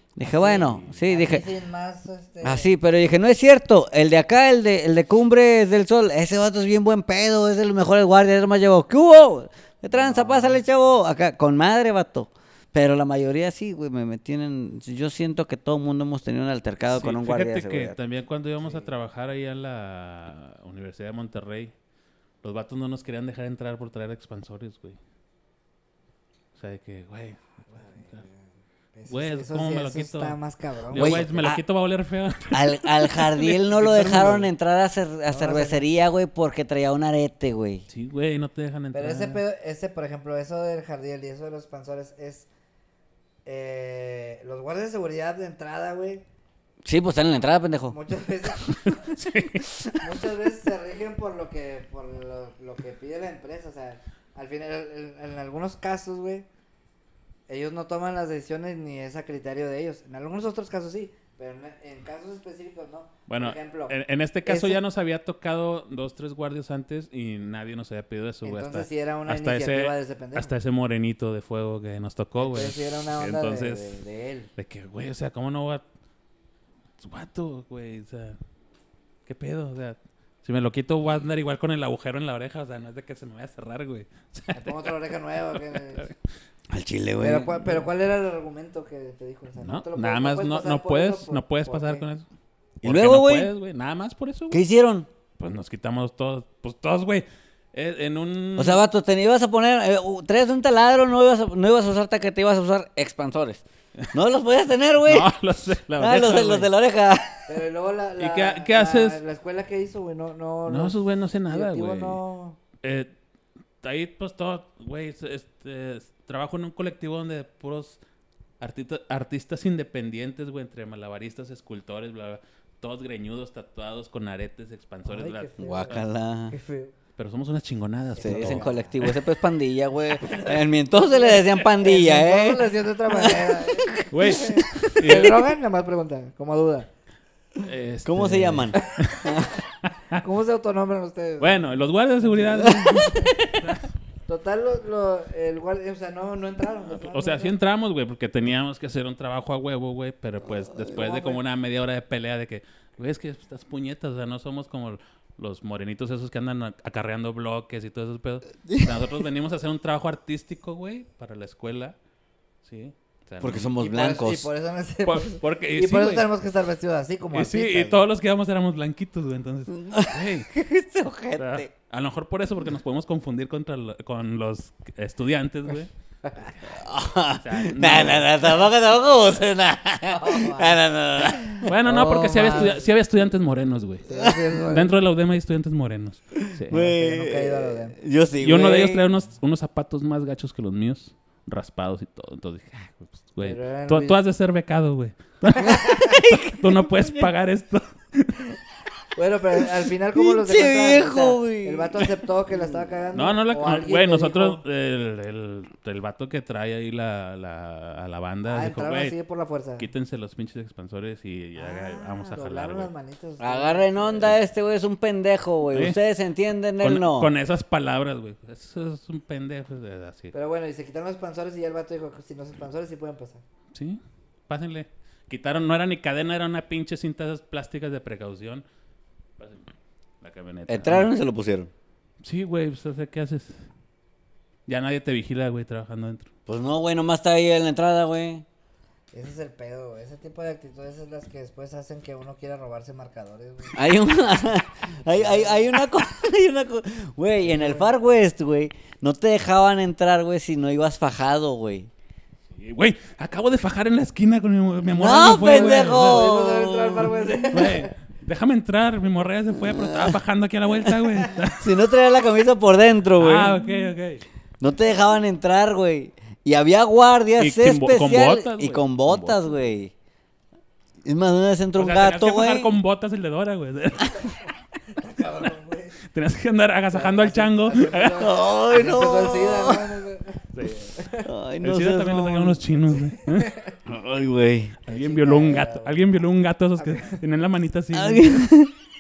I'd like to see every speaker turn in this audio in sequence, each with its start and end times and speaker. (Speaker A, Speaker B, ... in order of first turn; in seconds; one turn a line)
Speaker A: 0.2-1.5
Speaker B: 0.2-2.7
Speaker C: 0.6-0.9
Speaker A: 2.4-18.0
Speaker B: 9.9-10.6
Speaker C: 16.9-21.7
Speaker B: 18.6-18.9
Speaker C: 22.4-25.0
Speaker C: 26.6-27.4
Speaker B: 27.7-31.5
Speaker C: 29.1-30.4
Speaker C: 30.9-34.5
Speaker A: 30.9-31.6
Speaker A: 32.5-37.9
Speaker B: 35.3-35.9
Speaker C: 37.9-39.4
Speaker B: 38.9-42.5
Speaker B: 43.5-46.2
Speaker A: 46.8-48.0
Speaker B: 47.9-49.0
Speaker C: 48.8-49.8
Speaker B: 50.0-56.5
Speaker B: 57.5-64.8
Speaker C: 63.3-74.0
Speaker B: 68.4-70.5
Speaker B: 72.4-74.5
Speaker C: 74.6-75.8
Speaker C: 77.0-78.4
Speaker C: 79.3-84.9
Speaker B: 84.5-86.1
Speaker C: 85.5-86.2
Speaker A: 86.7-87.9
Speaker B: 87.2-92.0
Speaker C: 89.6-92.3
Speaker A: 92.8-93.5
Speaker C: 92.8-94.6
Speaker A: 94.5-95.1
Speaker C: 95.4-98.8
Speaker A: 98.6-105.3
Speaker C: 105.0-106.7
Speaker A: 106.0-107.5
Speaker B: 107.5-112.6
Speaker C: 108.2-109.2
Speaker C: 110.7-112.2
Speaker C: 112.8-113.1
Speaker C: 113.8-118.0
Speaker C: 118.6-126.0
Speaker B: 125.0-126.9
Speaker A: 125.6-126.5
Speaker C: 127.2-129.2
Speaker B: 128.1-129.0
Speaker A: 128.2-135.1
Speaker B: 130.2-136.9
Speaker C: 134.1-135.4
Speaker C: 137.6-140.2
Speaker A: 138.1-139.5
Speaker B: 139.1-139.4
Speaker B: 140.1-141.6
Speaker C: 141.4-143.8
Speaker A: 142.5-143.3
Speaker B: 142.6-143.4
Speaker B: 144.3-147.5
Speaker C: 146.9-162.0
Speaker A: 150.7-150.9
Speaker B: 150.9-151.4
Speaker A: 158.7-159.0
Speaker C: 162.6-163.7
Speaker A: 163.4-164.5
Speaker B: 163.8-168.0
Speaker C: 165.1-166.3
Speaker C: 167.3-170.5
Speaker A: 169.7-171.7
Speaker C: 171.4-175.9
Speaker A: 176.7-181.7
Speaker C: 177.4-178.6
Speaker B: 180.1-180.8
Speaker C: 181.6-184.1
Speaker B: 181.8-182.9
Speaker B: 184.1-184.9
Speaker A: 184.1-184.4
Speaker C: 184.6-186.9
Speaker A: 186.3-189.1
Speaker B: 186.7-188.0
Speaker C: 188.4-198.5
Speaker B: 193.4-194.2
Speaker B: 195.6-196.2
Speaker A: 195.6-197.3
Speaker B: 199.2-204.6
Speaker A: 200.2-202.1
Speaker C: 203.1-209.2
Speaker B: 208.5-209.9
Speaker C: 209.8-212.9
Speaker B: 211.6-214.4
Speaker A: 213.4-217.3
Speaker C: 216.8-220.3
Speaker B: 220.3-223.4
Speaker C: 223.7-228.6
Speaker C: 229.4-229.7
Speaker C: 230.2-231.1
Speaker A: 230.7-231.7
Speaker C: 232.2-233.6
Speaker C: 234.7-236.3
Speaker A: 236.5-238.4
Speaker B: 239.1-243.8
Speaker A: 243.8-251.9
Speaker B: 245.1-245.8
Speaker B: 247.4-247.9
Speaker C: 252.6-256.3
Speaker A: 254.9-257.4
Speaker B: 255.4-257.9
Speaker C: 257.5-261.7
Speaker A: 259.5-260.2
Speaker A: 260.8-263.6
Speaker C: 263.2-264.2
Speaker A: 264.6-269.9
Speaker C: 267.4-269.6
Speaker A: 271.0-272.8
Speaker C: 271.8-274.4
Speaker B: 274.9-276.0
Speaker C: 276.1-278.3
Speaker B: 276.9-281.3
Speaker A: 278.2-280.0
Speaker C: 280.5-280.9
Speaker A: 281.2-282.6
Speaker C: 281.6-283.5
Speaker B: 283.1-283.8
Speaker A: 283.9-284.8
Speaker B: 284.9-286.2
Speaker C: 284.9-288.5
Speaker B: 286.8-287.2
Speaker A: 287.9-288.7